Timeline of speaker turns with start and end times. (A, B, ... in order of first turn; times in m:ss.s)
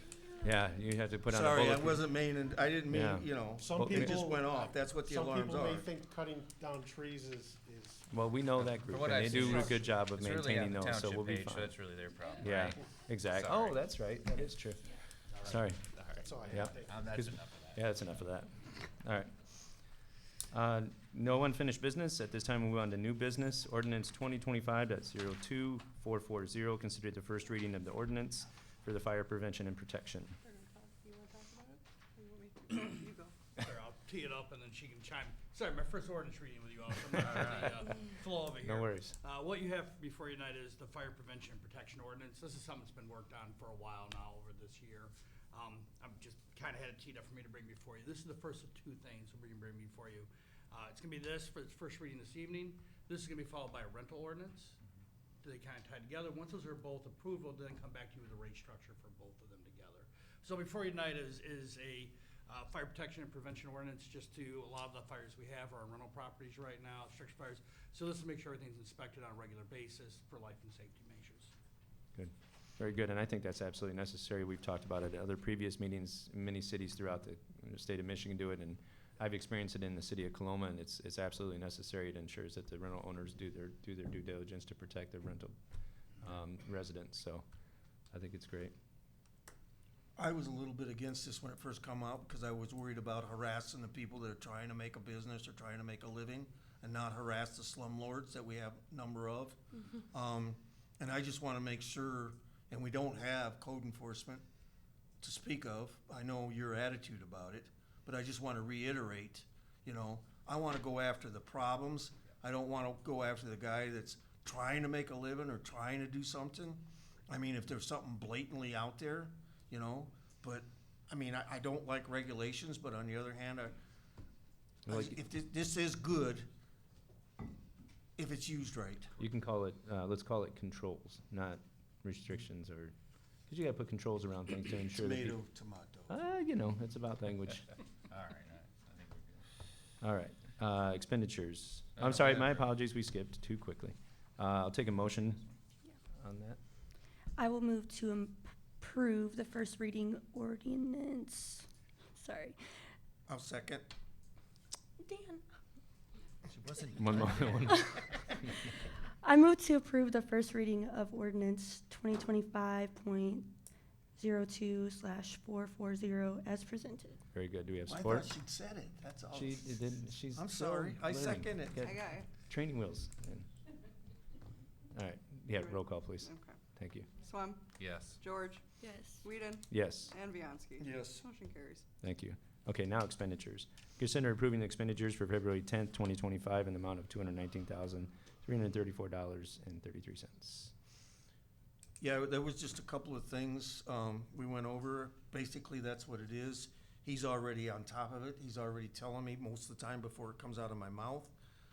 0:00.4-0:02.1 A
0:01.3-0:05.9 B
0:02.9-0:04.2 A
0:03.6-0:08.1 C
0:08.1-0:11.8 A
0:08.6-0:13.8 D
0:09.4-0:09.7 C
0:12.4-0:14.8 A
0:15.4-0:15.9 A
0:15.5-0:17.9 D
0:16.2-0:17.3 C
0:16.5-0:19.3 A
0:20.5-0:30.4 A
0:30.4-0:33.3 E
0:33.6-0:54.8 F
0:38.6-0:39.2 A
0:55.4-1:11.5 F
1:12.1-1:25.5 A
1:26.2-1:27.4 A
1:28.1-1:28.7 A
1:30.2-1:44.4 B
1:45.2-2:03.8 B
2:04.8-2:05.2 A
2:04.9-2:06.5 B
2:08.2-2:09.1 B
2:09.2-2:12.9 A
2:13.5-2:15.4 A
2:14.9-2:16.1 B
2:16.1-2:17.7 A
2:18.1-2:19.4 D
2:20.0-2:25.4 A
2:22.0-2:22.7 D
2:26.2-2:26.6 A
2:27.4-2:32.6 G
2:33.3-2:33.9 B
2:35.1-2:35.4 G
2:36.6-2:37.6 D
2:36.8-2:38.4 A
2:39.2-2:43.5 G
2:44.2-2:47.2 G
2:47.3-2:48.3 A
2:47.9-2:49.8 B
2:49.3-2:53.4 A
2:50.3-2:51.9 B
2:51.8-2:52.3 E
2:54.9-2:57.1 A
2:55.6-2:56.6 E
2:57.2-2:58.6 E
2:57.8-2:58.2 D
2:58.8-2:59.2 G
2:59.2-3:01.9 E
2:59.7-3:00.1 A
3:00.8-3:01.2 B
3:02.0-3:10.7 A
3:12.0-3:21.3 B